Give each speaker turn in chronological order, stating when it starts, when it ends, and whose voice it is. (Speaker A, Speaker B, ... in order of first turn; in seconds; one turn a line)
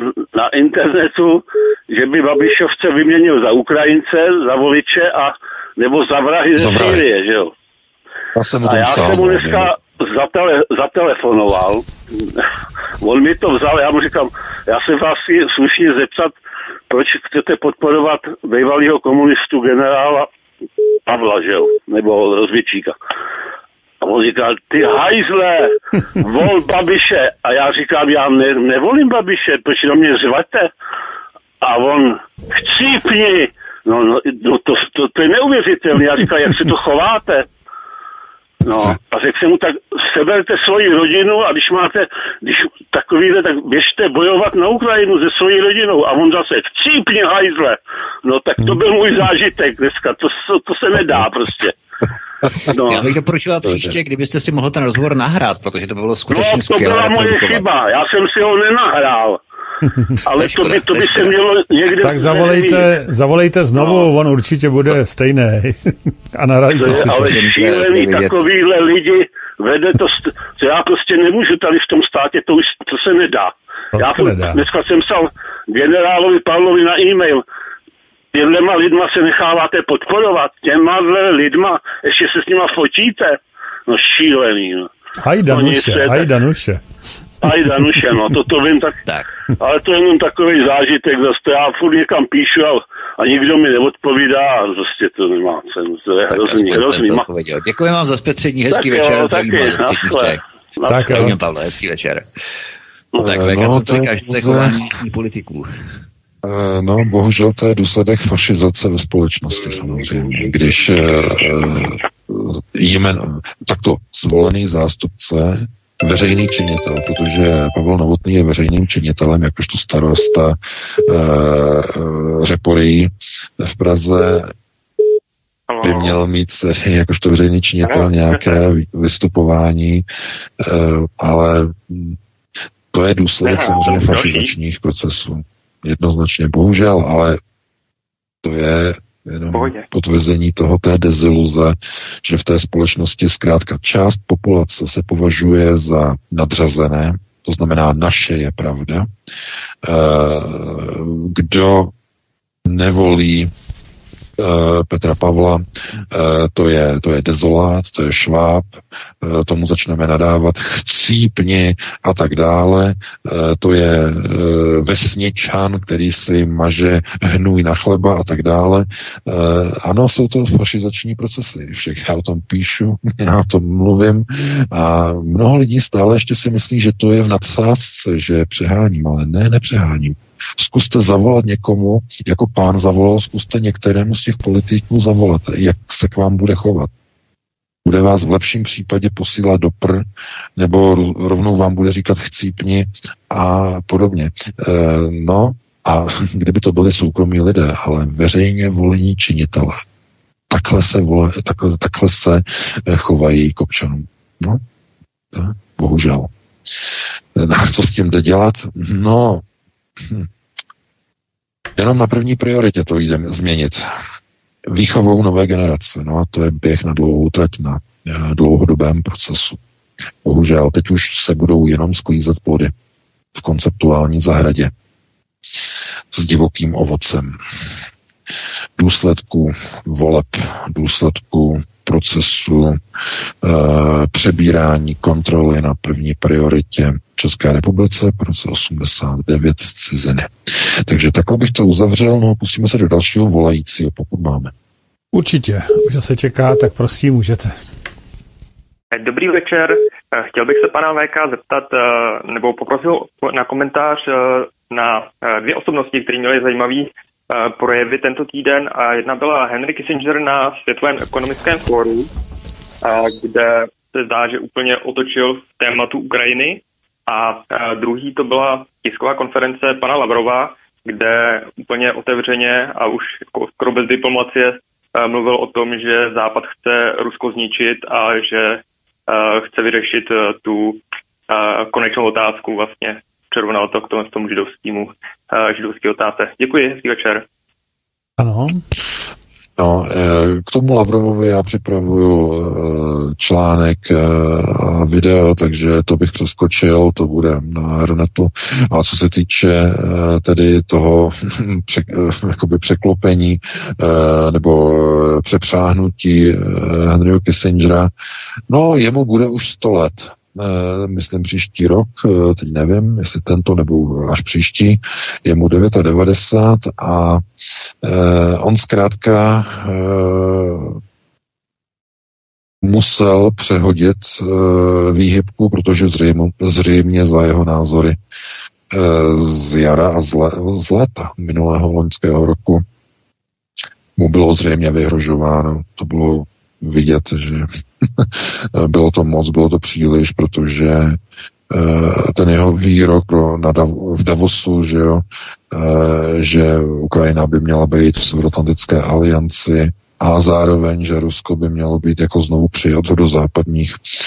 Speaker A: 0.3-7.5
Speaker B: 6.5-7.0
Speaker B: 8.3-9.7
Speaker A: 8.6-12.2
Speaker A: 13.0-16.4
Speaker A: 16.9-20.3
Speaker A: 21.1-22.9
Speaker A: 24.0-30.7
Speaker A: 31.6-37.5
Speaker A: 38.6-51.7
Speaker A: 52.7-53.1
Speaker C: 52.8-57.6
Speaker B: 53.6-53.9
Speaker A: 56.3-59.4
Speaker A: 60.2-62.9
Speaker C: 60.3-61.3
Speaker D: 62.0-67.4
Speaker A: 63.8-64.1
Speaker A: 66.7-77.4
Speaker C: 66.8-68.5
Speaker D: 73.9-74.6
Speaker A: 78.3-84.9
Speaker D: 85.2-86.8
Speaker A: 85.5-86.3
Speaker A: 87.4-89.0
Speaker D: 87.6-88.0
Speaker A: 89.6-97.2
Speaker C: 96.3-100.4
Speaker A: 98.7-101.0
Speaker D: 100.9-101.3
Speaker C: 100.9-102.2
Speaker C: 103.2-105.8
Speaker B: 103.2-104.8
Speaker B: 106.4-124.5
Speaker E: 125.7-126.1
Speaker B: 125.8-130.0
Speaker B: 130.6-132.2
Speaker B: 132.9-137.4
Speaker E: 133.7-134.5
Speaker B: 138.4-149.1
Speaker E: 139.5-139.8
Speaker B: 149.8-151.9
Speaker B: 152.6-153.5
Speaker B: 154.4-186.9
Speaker B: 187.8-190.0
Speaker B: 190.6-199.8
Speaker B: 200.5-204.6
Speaker B: 205.3-206.3
Speaker B: 207.3-209.4
Speaker B: 210.0-210.3
Speaker B: 211.8-213.8
Speaker B: 214.7-219.6
Speaker B: 220.2-222.7
Speaker B: 223.3-224.7
Speaker B: 226.1-227.4
Speaker B: 228.8-232.8
Speaker B: 233.4-240.3
Speaker B: 240.8-244.5
Speaker D: 245.1-247.5
Speaker E: 248.9-262.1
Speaker E: 262.8-287.2
Speaker D: 288.2-288.6
Speaker B: 289.6-307.9
Speaker B: 308.5-317.2
Speaker B: 317.8-320.8
Speaker B: 322.6-328.0
Speaker B: 328.7-332.6
Speaker B: 333.9-341.0
Speaker B: 341.5-353.8